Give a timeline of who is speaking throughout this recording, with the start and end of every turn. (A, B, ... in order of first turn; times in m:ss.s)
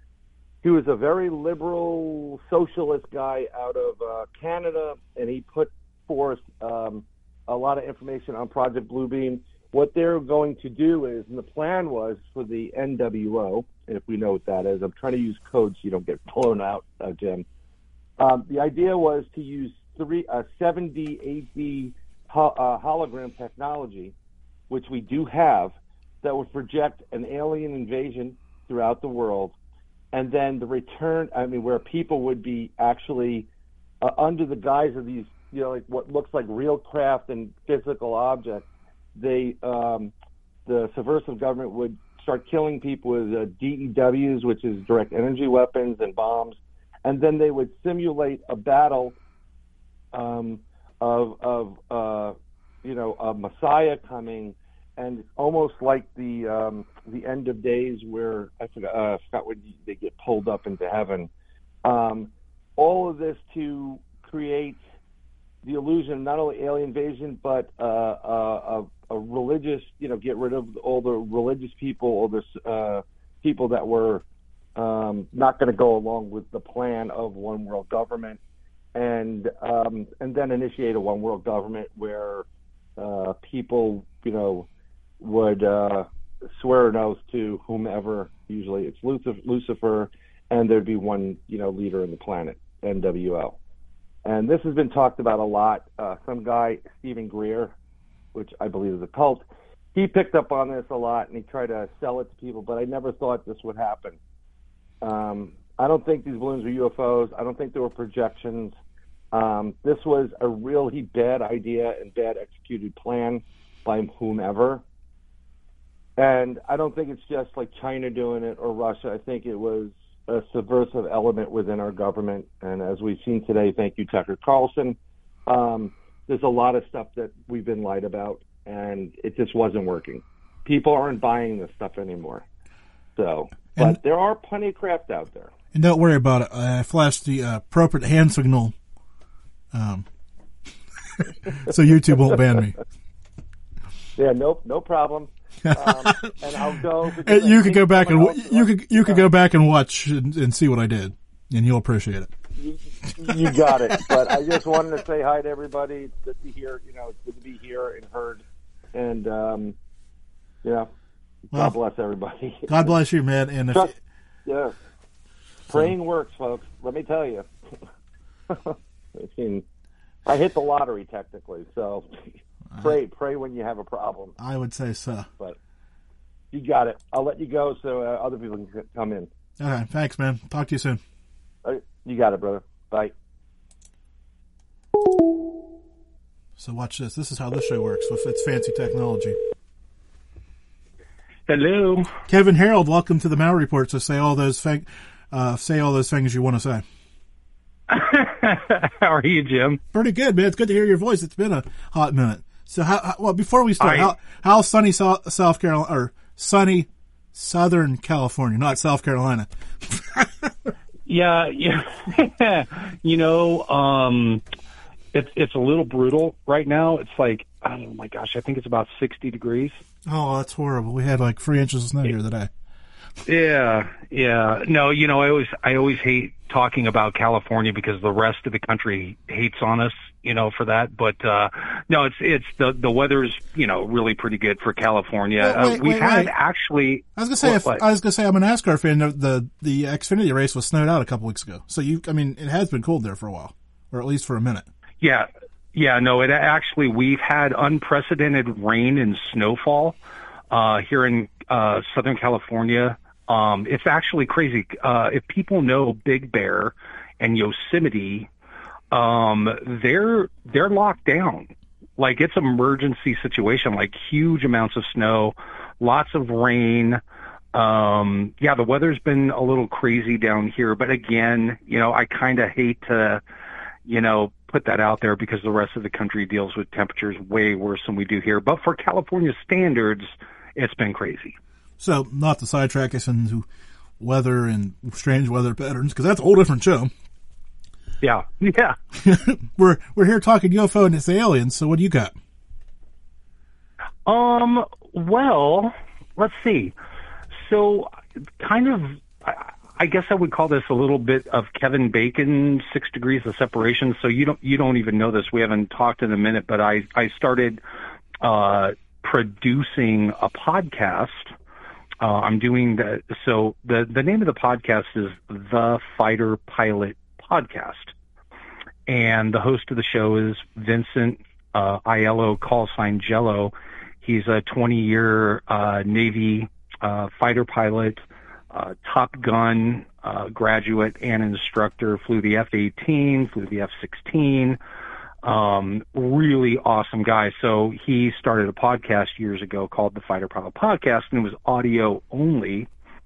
0:00.6-0:17.5 A
0:18.2-0:24.1 A
0:24.7-0:29.5 A
0:30.1-0:33.5 A
0:34.0-0:40.1 A
0:40.6-0:49.2 A
0:50.1-1:01.3 A
1:01.8-1:04.8 A
1:05.6-1:14.2 A
1:14.8-1:18.4 A
1:18.9-1:22.4 A
1:23.0-1:24.7 A
1:25.2-1:33.6 A
1:34.2-1:37.7 A
1:38.3-1:44.2 A
1:45.0-1:48.7 A
1:49.3-1:54.8 A
1:56.2-2:12.5 A
2:13.2-2:15.5 A
2:15.7-2:18.7 B
2:19.7-2:20.1 B
2:21.2-2:22.8 B
2:24.2-2:29.3 A
2:25.7-2:26.3 B
2:27.2-2:32.3 B
2:32.6-2:39.8 A
2:33.2-2:34.6 B
2:40.6-2:40.9 A
2:41.5-2:42.9 A
2:42.7-2:43.9 B
2:44.5-2:44.7 A
2:45.7-2:47.5 A
2:48.5-2:49.6 A
2:50.3-2:52.2 A
2:52.7-2:53.0 B
2:52.8-2:54.4 A
2:54.4-2:55.3 B
2:56.5-2:59.3 A
2:59.6-3:01.0 B
3:01.6-3:03.1 A
3:06.6-3:09.4 B
3:11.5-3:12.1 C
3:12.3-3:16.8 B
3:17.9-3:19.8 C
3:19.9-3:30.7 B
3:23.8-3:24.1 C
3:31.1-3:34.4 C
3:35.1-3:39.8 C
3:40.1-3:42.5 B
3:43.3-3:57.8 C
3:55.4-3:56.3 B
3:57.2-4:04.7 B
4:05.0-4:10.0 C
4:10.5-4:18.3 C
4:18.9-4:27.0 C
4:27.5-4:33.2 C
4:33.9-4:41.4 C
4:41.8-4:43.5 B
4:44.0-4:46.9 B
4:48.0-4:48.8 C
4:49.0-4:52.1 B
4:54.1-4:56.8 C
4:57.4-5:07.6 C
5:08.2-5:11.3 C
5:12.0-5:17.9 C
5:18.9-5:34.6 C
5:35.2-5:42.7 C